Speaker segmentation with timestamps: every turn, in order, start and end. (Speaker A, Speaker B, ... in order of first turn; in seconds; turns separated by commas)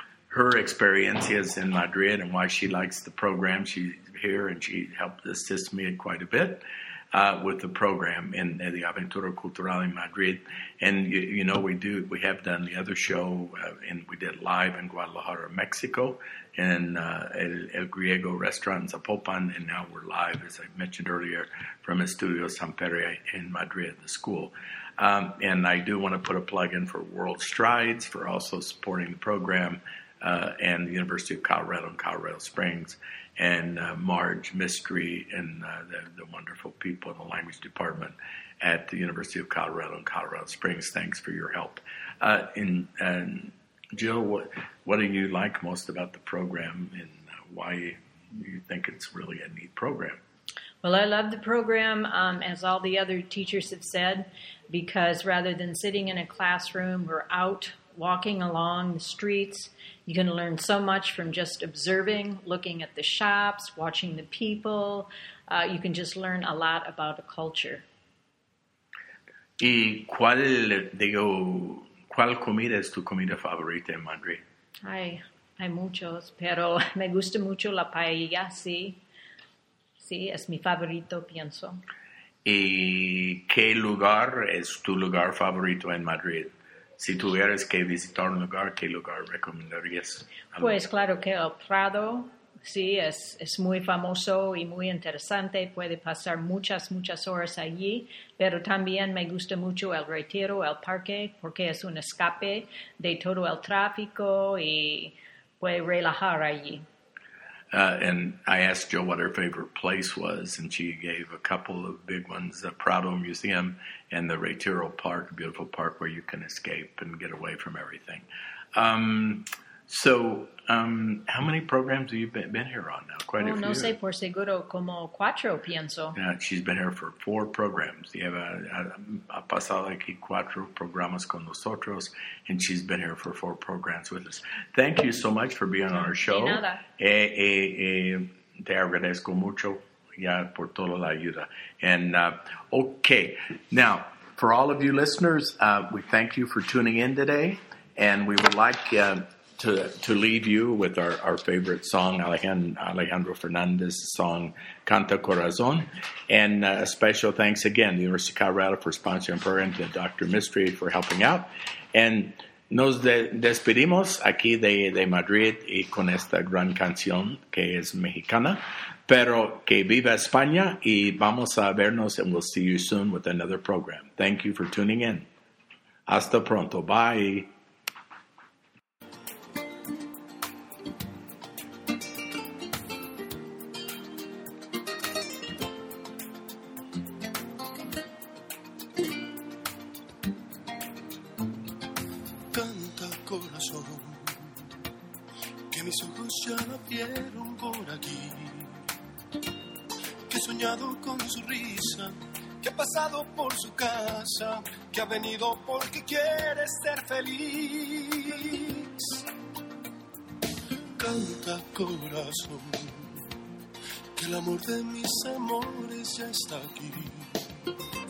Speaker A: 0.3-50.2, Speaker B: 50.8-67.8, Speaker A: 69.6-74.4, Speaker B: 74.8-79.0, Speaker B: 80.0-81.8, Speaker A: 82.4-90.8, Speaker B: 90.6-106.8, Speaker A: 107.7-118.2, Speaker A: 118.8-123.9, Speaker B: 123.4-126.2, Speaker A: 126.1-175.3, Speaker B: 136.0-136.8, Speaker A: 176.1-177.5, Speaker C: 192.5-194.4, Speaker C: 195.7-198.7, Speaker C: 200.3-209.2, Speaker C: 211.0-213.2, Speaker C: 214.2-217.4